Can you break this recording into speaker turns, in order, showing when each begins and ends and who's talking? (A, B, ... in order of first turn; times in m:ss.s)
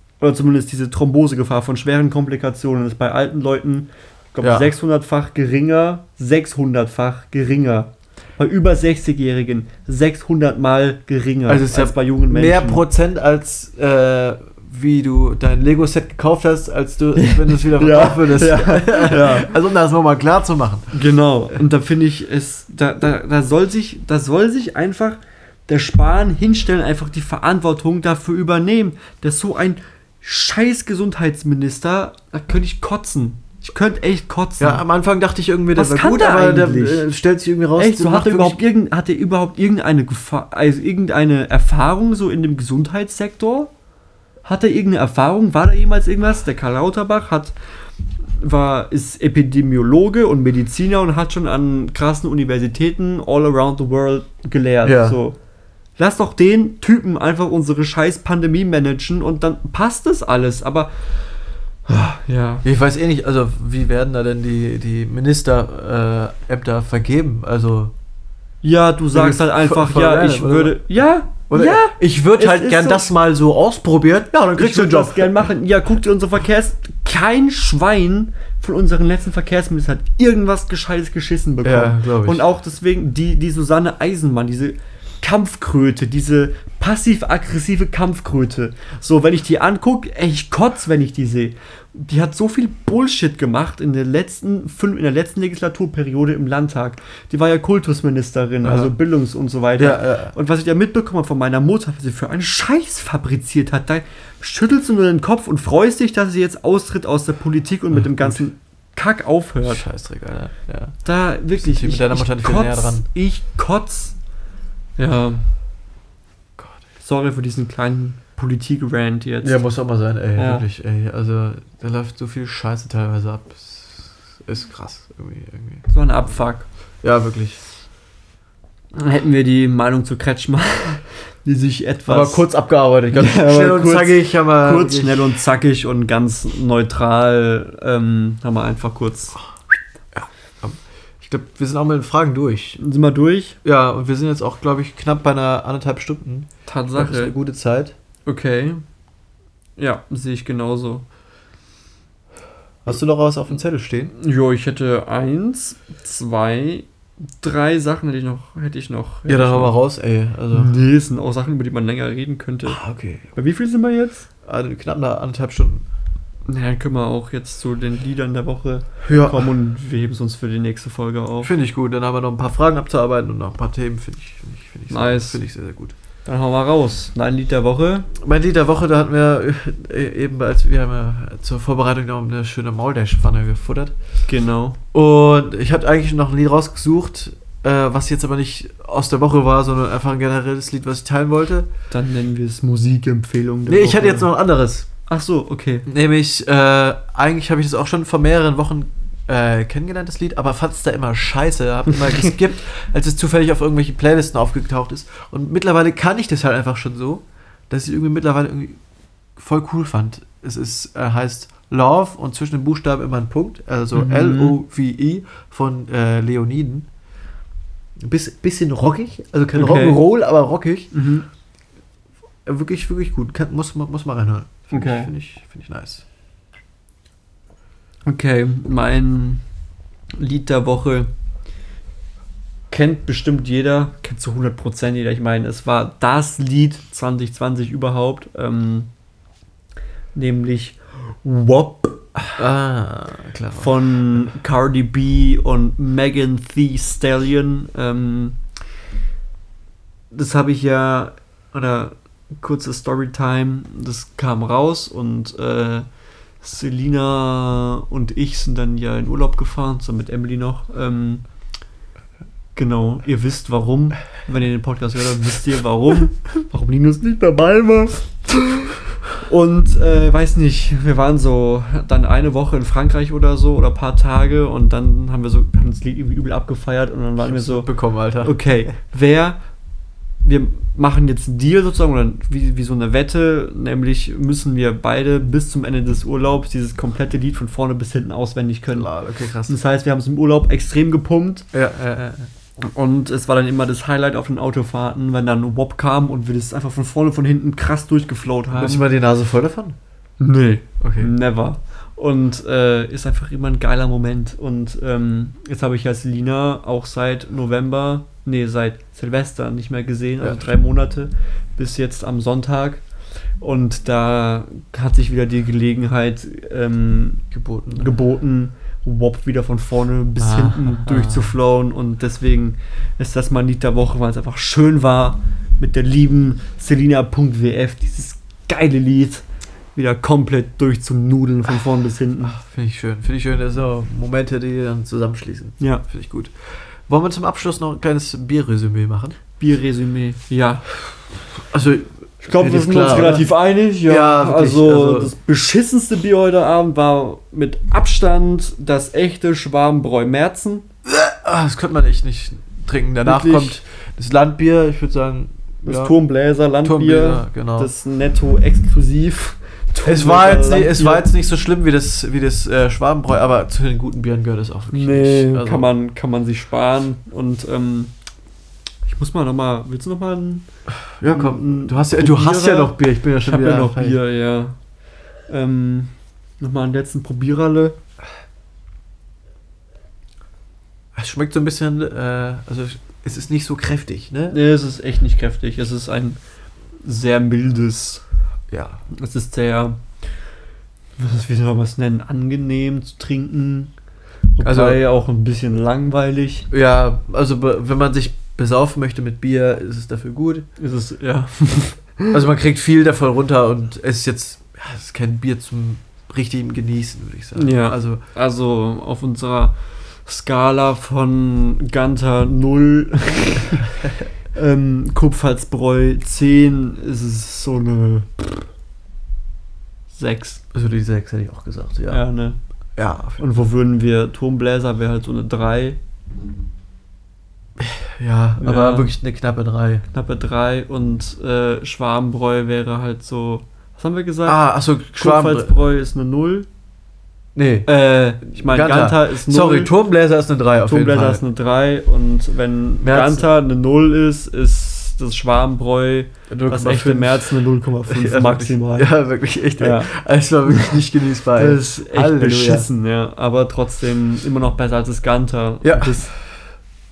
0:00.2-0:12.8 A
0:04.4-0:04.7 B
0:11.5-0:21.0 B
0:17.2-0:19.5 A
0:20.9-0:34.8 A
0:34.6-0:38.6 B
0:35.7-0:37.1 A
0:37.8-0:43.7 A
0:44.4-0:47.5 A
0:48.4-0:55.4 A
0:54.8-0:55.2 B
0:56.0-1:02.6 A
1:02.6-1:07.9 B
1:08.6-1:13.1 A
1:09.1-1:10.8 B
1:11.5-1:15.4 B
1:14.6-1:49.8 A
1:21.6-1:22.4 B
1:38.6-1:38.9 B
1:39.8-1:40.3 B
1:48.0-1:48.4 B
1:49.6-1:53.0 B
1:51.0-1:54.2 A
1:55.0-1:55.4 A
1:56.6-1:56.8 B
1:57.0-1:59.6 A
1:59.4-2:05.9 B
2:00.4-2:00.6 A
2:05.9-2:06.7 A
2:07.0-2:07.6 B
2:08.9-2:12.5 A
2:12.1-2:15.3 B
2:13.1-2:19.3 A
2:20.1-2:22.8 B
2:22.8-2:23.6 A
2:23.6-2:28.0 B
2:26.6-2:27.3 A
2:28.2-2:28.8 A
2:29.8-2:31.0 A
2:32.8-2:34.1 B
2:34.2-2:39.7 A
2:39.2-2:40.7 B
2:40.5-2:42.8 A
2:42.6-2:43.3 B
2:43.3-2:44.3 A
2:44.4-2:45.8 B
2:46.4-2:51.5 A
2:49.0-2:49.4 B
2:51.4-2:56.0 B
2:54.9-2:55.4 A
2:56.2-2:58.1 A
2:58.2-3:03.9 B
3:04.3-3:04.8 A
3:04.9-3:11.7 B
3:11.9-3:14.3 A
3:13.7-3:14.9 B
3:15.1-3:15.8 A
3:15.8-3:28.8 B
3:29.4-3:36.9 B
3:33.9-3:34.6 A
3:38.0-3:40.9 B
3:39.5-3:40.0 A
3:40.9-3:41.2 A
3:42.4-3:46.0 B
3:44.7-3:45.1 A
3:48.0-3:49.4 A
3:50.1-3:51.1 A
3:52.7-3:58.9 A
4:00.1-4:02.4 A
4:02.4-4:03.7 B
4:03.6-4:08.4 A
4:10.1-4:15.9 A
4:16.4-4:21.2 A
4:22.6-4:39.4 A
4:37.2-4:38.5 B
4:40.2-4:48.9 A
4:48.7-4:49.6 B
4:49.4-4:51.5 A
4:51.5-4:52.3 B
4:52.6-4:58.8 A
4:58.5-4:59.8 B
5:00.2-5:12.9 A
5:00.8-5:01.1 B
5:10.2-5:10.5 B
5:13.4-5:32.3 A
5:17.3-5:17.9 B
5:20.2-5:21.3 B
5:32.2-5:39.2 B
5:39.4-5:40.9 A
5:41.5-5:43.3 B
5:42.2-5:50.6 A
5:43.8-5:45.1 B
5:50.8-5:56.0 B
5:53.0-5:53.6 A
5:55.6-6:01.1 A
5:56.6-5:57.7 B
5:59.8-6:05.7 B
6:04.7-6:07.9 A
6:08.8-6:14.6 A
6:10.7-6:14.0 B
6:15.2-6:17.8 A
6:21.0-6:24.4 B
6:24.3-6:28.0 A
6:28.5-6:28.8 B
6:28.9-6:30.0 A
6:31.0-6:33.7 A
6:34.3-6:36.5 A
6:34.4-6:34.8 B
6:36.5-6:40.5 B
6:40.6-6:42.2 A
6:42.1-6:48.0 B
6:47.4-6:53.7 A
6:54.3-6:58.5 A
6:59.9-7:00.4 A
7:00.5-7:02.1 B
7:01.9-7:02.4 A
7:02.8-7:03.2 B
7:03.1-7:05.8 A
7:07.6-7:09.8 B
7:08.4-7:08.9 A
7:09.9-7:16.5 A
7:14.2-7:15.5 B
7:17.3-7:21.2 B
7:17.6-7:19.7 A
7:20.6-7:29.9 A
7:22.8-7:23.2 B
7:26.3-7:32.7 B
7:31.4-7:36.3 A
7:35.6-7:36.1 B